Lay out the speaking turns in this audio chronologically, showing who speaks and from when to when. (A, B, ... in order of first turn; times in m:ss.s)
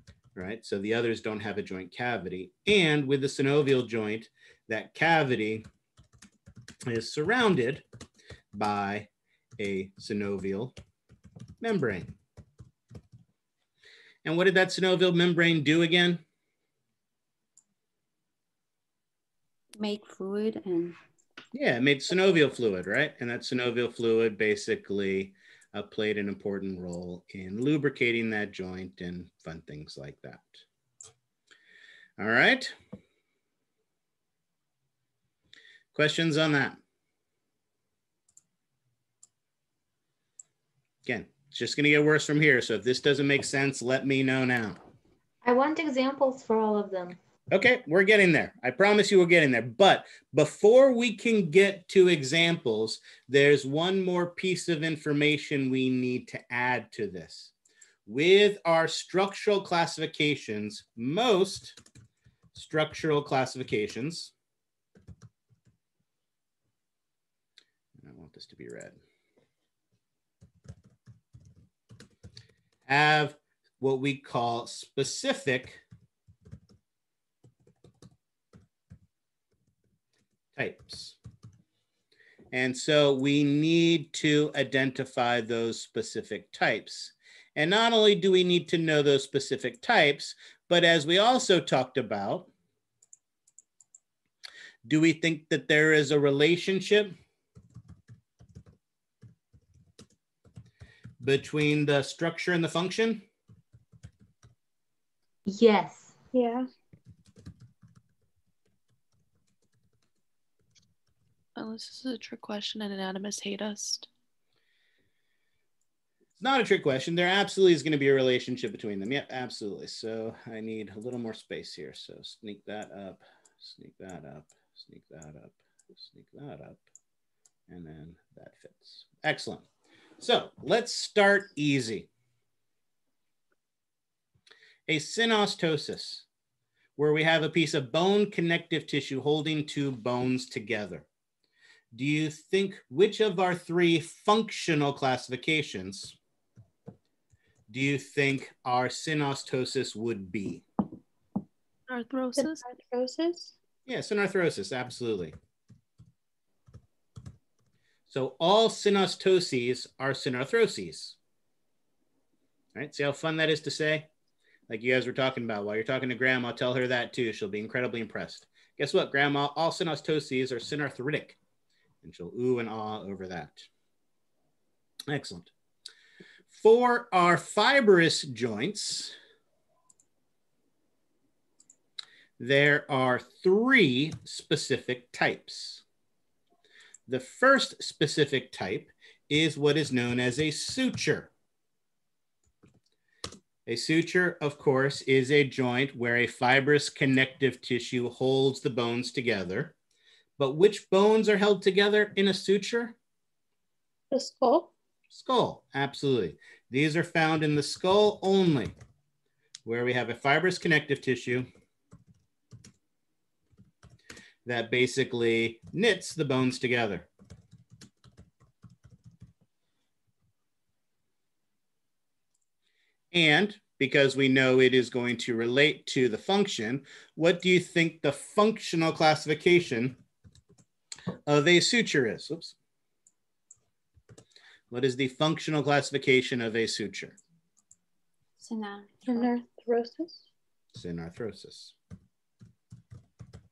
0:00.4-0:05.6 A
0:06.8-0:07.8 A
0:08.5-0:10.7 A
0:11.6-0:12.2 A
0:14.2-0:16.2 A
0:19.7-0:21.0 B
0:21.5-0:30.6 A
0:32.2-0:32.7 A
0:35.9-0:36.8 A
0:41.0-0:44.8 A
0:45.4-0:47.2 C
0:47.5-0:57.5 A
0:58.0-1:01.8 A
1:02.5-1:04.3 A
1:08.0-1:09.0 A
1:12.9-1:15.8 A
1:20.5-1:21.2 A
1:22.5-1:32.5 A
1:34.8-1:37.1 A
1:41.2-1:43.2 A
1:45.4-1:46.1 C
1:46.3-1:46.7 D
1:51.6-1:54.1 E
1:56.4-2:06.8 A
2:07.7-2:09.6 A
2:10.2-2:12.1 A
2:14.9-2:16.2 A
2:17.0-2:21.0 A
2:21.9-2:26.2 A
2:27.7-2:30.6 A
2:31.9-2:32.6 E
2:32.4-2:33.5 D
2:33.9-2:35.3 A
2:38.1-2:41.2 A
2:42.7-2:44.1 A
2:44.7-2:51.4 A
2:52.0-2:53.7 A
2:55.1-2:55.5 A
2:56.5-2:59.1 A
3:02.4-3:05.8 A
3:07.1-3:11.3 A
3:13.6-3:19.7 A
3:20.4-3:23.0 A
3:24.1-3:24.7 D
3:25.1-3:28.7 A
3:29.6-3:31.5 A
3:34.4-3:37.1 A
3:43.1-3:50.0 A
3:51.3-3:52.5 A
3:54.7-3:57.2 A
3:58.4-3:59.3 B
3:59.1-3:59.7 D
4:00.7-4:01.7 A